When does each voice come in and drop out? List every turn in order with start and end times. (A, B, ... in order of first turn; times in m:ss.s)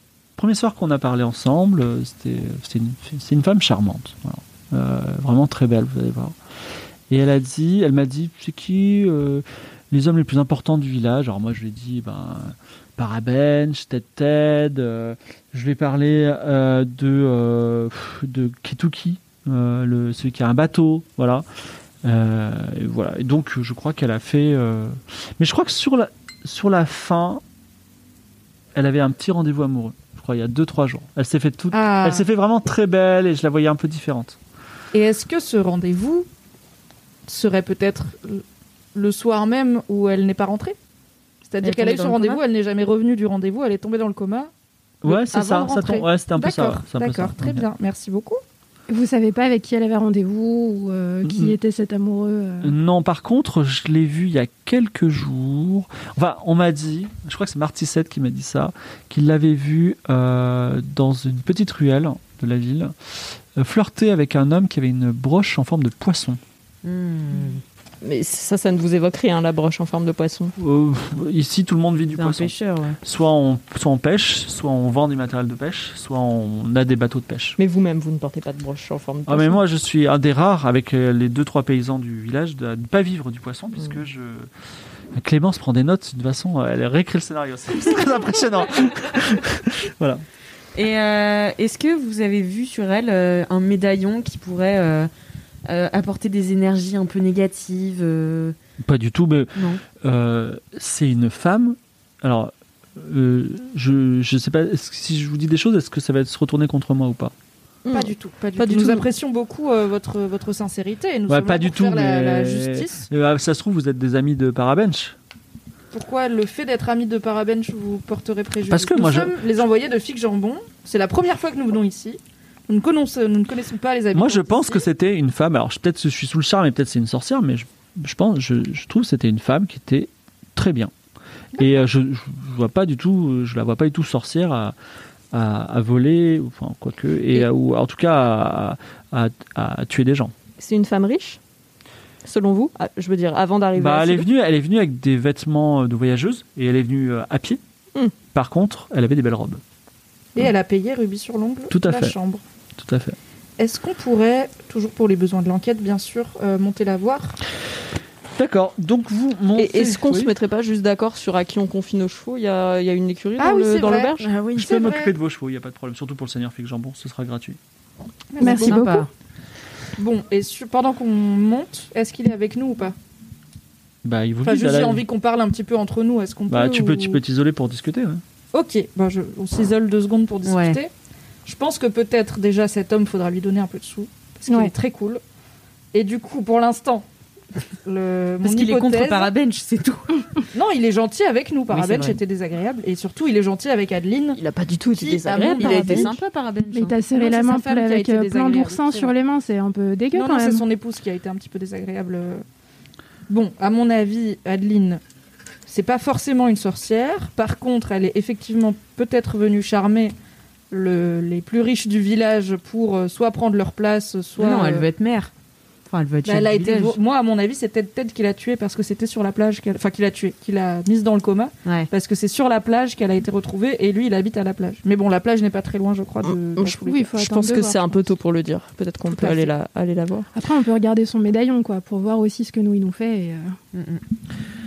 0:00.4-0:06.4 A
0:07.1-0:21.4 A
0:22.0-0:27.4 A
0:28.8-0:34.4 A
0:31.7-0:32.3 B
0:34.9-0:36.3 B
0:37.3-0:38.4 B
0:38.9-0:40.8 B
0:41.4-0:44.5 B
0:41.6-0:42.4 C
0:45.0-0:47.7 A
0:45.0-0:48.4 B
0:48.9-0:52.8 D
0:51.2-0:51.6 A
0:52.6-1:06.4 A
1:06.8-1:07.6 C
1:08.0-1:10.6 E
1:10.6-1:17.6 A
1:12.2-1:13.0 C
1:17.6-1:19.6 E
1:19.3-1:24.5 A
1:25.2-1:30.2 A
1:30.8-1:35.1 C
1:35.7-1:38.6 C
1:38.8-1:47.3 A
1:39.6-1:39.8 C
1:47.8-1:49.1 E
1:47.9-1:53.0 B
1:51.3-1:55.2 A
1:55.9-2:04.8 B
1:58.7-1:59.4 A
2:04.1-2:10.9 A
2:11.6-2:14.8 A
2:15.3-2:20.3 A
2:20.6-2:21.4 E
2:22.2-2:24.3 E
2:23.8-2:27.6 A
2:28.3-2:29.6 A
2:30.4-2:32.4 B
2:31.7-2:32.1 A
2:32.8-2:33.2 A
2:33.6-2:37.4 B
2:38.4-2:40.3 A
2:39.6-2:44.3 E
2:43.4-2:45.1 B
2:44.2-2:44.7 C
2:44.6-2:47.6 A
2:48.3-2:48.9 B
2:48.4-2:49.1 D
2:48.4-2:49.1 C
2:50.0-2:53.0 B
2:54.0-2:55.0 A
2:54.4-2:57.2 B
2:56.5-2:58.2 A
2:58.5-3:00.9 B
3:00.4-3:00.8 C
3:01.4-3:05.2 B
3:05.9-3:07.0 B
3:07.9-3:09.3 B
3:08.4-3:10.2 C
3:10.5-3:14.4 B
3:11.7-3:12.2 C
3:14.3-3:16.2 E
3:14.9-3:16.1 B
3:15.3-3:17.0 C
3:16.7-3:20.6 D
3:17.1-3:19.2 B
3:20.1-3:22.4 B
3:23.3-3:25.0 B
3:25.7-3:30.2 B
3:30.7-3:34.9 B
3:34.4-3:35.3 C
3:35.9-3:37.0 C
3:36.2-3:47.1 B
3:46.2-3:50.3 E
3:46.9-3:48.0 D
3:49.1-3:49.5 B
3:50.4-3:53.6 D
3:53.7-3:54.0 C